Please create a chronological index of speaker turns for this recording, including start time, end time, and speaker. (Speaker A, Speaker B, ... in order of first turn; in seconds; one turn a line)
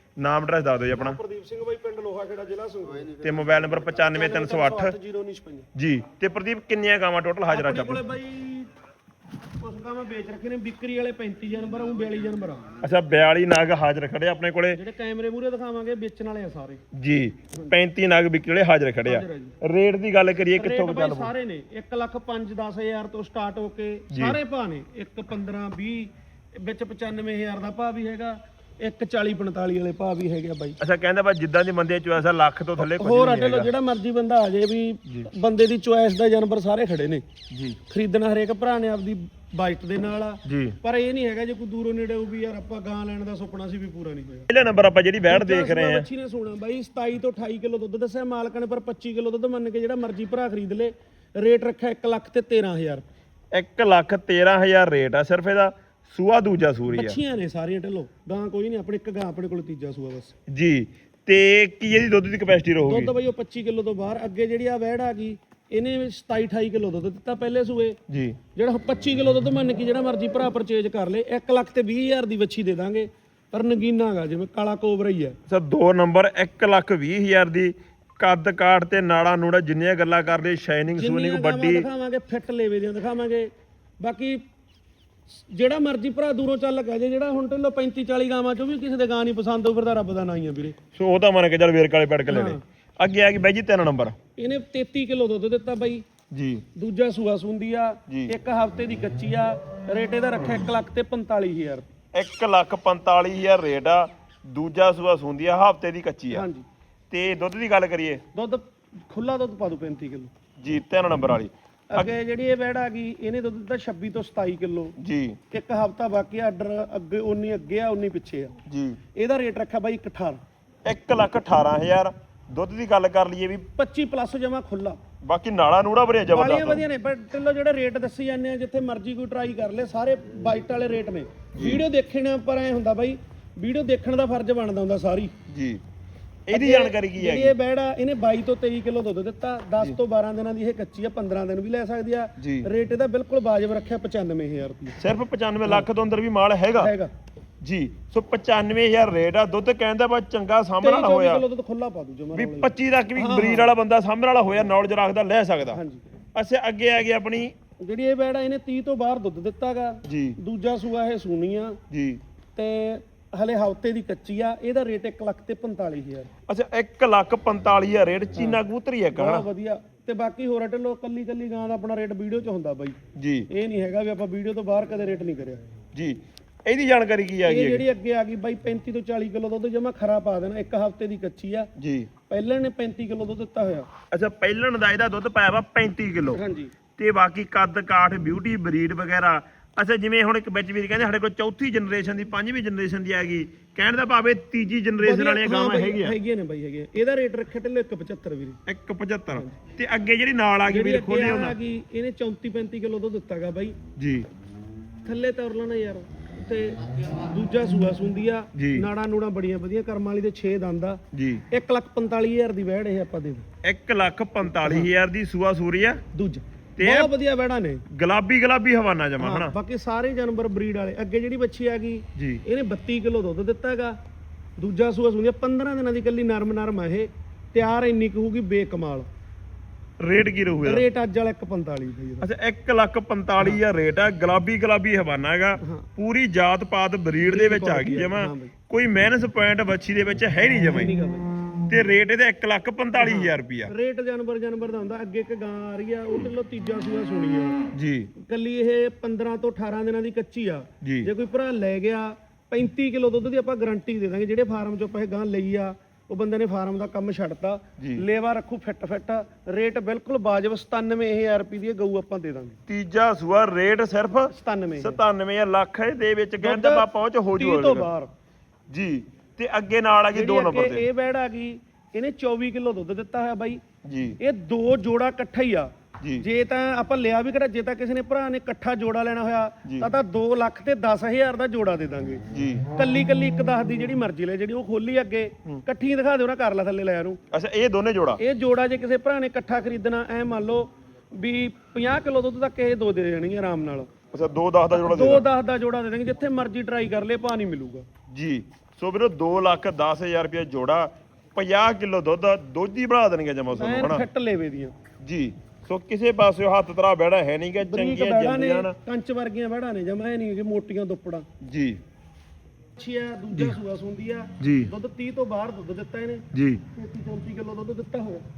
Speaker A: 0.2-1.2
Speaker B: 0.9-3.2
Speaker A: 3.2-4.9
Speaker B: 4.1-5.7
Speaker A: 5.7-8.0
Speaker B: 7.5-8.7
Speaker B: 9.4-12.7
Speaker A: 12.8-14.8
Speaker B: 14.7-16.8
Speaker A: 16.9-21.3
Speaker B: 19.0-19.6
Speaker B: 20.6-30.8
Speaker A: 24.1-24.4
Speaker A: 30.8-33.7
Speaker B: 32.8-37.2
Speaker A: 37.5-37.8
Speaker B: 37.9-44.5
Speaker A: 40.4-40.8
Speaker A: 44.5-46.0
Speaker B: 45.3-53.0
Speaker A: 53.5-57.2
Speaker B: 56.9-60.3
Speaker A: 60.5-63.1
Speaker B: 62.8-68.0
Speaker A: 68.1-68.4
Speaker B: 68.5-75.4
Speaker A: 75.5-81.9
Speaker B: 81.0-84.4
Speaker B: 85.3-90.8
Speaker A: 90.9-94.2
Speaker B: 92.3-92.6
Speaker B: 94.4-96.0
Speaker A: 96.3-96.6
Speaker B: 96.7-101.9
Speaker A: 98.1-98.3
Speaker A: 102.1-106.5
Speaker B: 106.3-106.7
Speaker A: 107.1-108.2
Speaker B: 108.3-110.3
Speaker A: 110.6-112.1
Speaker B: 111.9-114.9
Speaker A: 115.0-115.4
Speaker B: 115.5-118.5
Speaker A: 118.7-119.0
Speaker B: 119.1-120.4
Speaker A: 120.8-123.7
Speaker B: 123.7-125.0
Speaker A: 125.2-126.8
Speaker B: 126.3-135.3
Speaker A: 131.6-131.8
Speaker A: 135.5-135.8
Speaker A: 136.5-137.5
Speaker B: 136.5-145.0
Speaker A: 142.4-142.7
Speaker A: 145.0-146.9
Speaker B: 146.8-147.1
Speaker A: 147.6-151.4
Speaker B: 150.8-153.7
Speaker A: 152.3-155.8
Speaker B: 155.7-156.0
Speaker A: 156.3-157.5
Speaker B: 157.8-161.8
Speaker A: 160.0-160.4
Speaker A: 161.9-162.2
Speaker B: 162.5-166.3
Speaker A: 166.5-169.4
Speaker B: 168.3-168.6
Speaker B: 169.1-173.0
Speaker A: 173.2-173.5
Speaker B: 173.5-175.6
Speaker A: 175.9-177.8
Speaker B: 177.4-181.7
Speaker A: 181.8-182.1
Speaker B: 182.3-183.9
Speaker A: 184.1-186.4
Speaker B: 186.3-186.7
Speaker A: 186.9-196.1
Speaker B: 195.0-198.6
Speaker A: 198.7-201.6
Speaker B: 200.7-203.8
Speaker A: 203.9-204.3
Speaker B: 205.0-211.0
Speaker A: 208.5-208.8
Speaker A: 211.1-211.4
Speaker B: 211.5-213.5
Speaker A: 213.6-216.0
Speaker B: 214.5-214.9
Speaker B: 216.1-217.8
Speaker A: 216.8-217.1
Speaker A: 217.9-219.6
Speaker B: 219.2-224.0
Speaker A: 222.2-222.4
Speaker B: 224.6-229.1
Speaker A: 230.0-230.8
Speaker B: 230.6-232.3
Speaker A: 232.2-240.9
Speaker B: 235.6-235.9
Speaker B: 237.2-238.5
Speaker B: 240.6-241.3
Speaker A: 241.7-243.7
Speaker B: 243.0-247.6
Speaker A: 247.7-248.1
Speaker B: 248.2-262.6
Speaker A: 250.8-251.1
Speaker A: 257.8-258.0
Speaker A: 262.7-267.9
Speaker B: 264.3-265.0
Speaker B: 266.4-268.1
Speaker A: 268.7-270.9
Speaker B: 270.1-273.6
Speaker A: 273.8-274.2
Speaker B: 274.2-287.2
Speaker A: 279.6-279.9
Speaker A: 282.3-282.6
Speaker A: 287.3-288.2
Speaker B: 288.2-293.9
Speaker A: 294.1-295.2
Speaker B: 294.7-297.9
Speaker A: 298.1-304.0
Speaker B: 303.5-304.7
Speaker A: 305.0-308.8
Speaker B: 307.6-311.3
Speaker A: 311.4-311.8
Speaker B: 312.8-318.2
Speaker A: 314.4-314.7
Speaker A: 316.3-316.6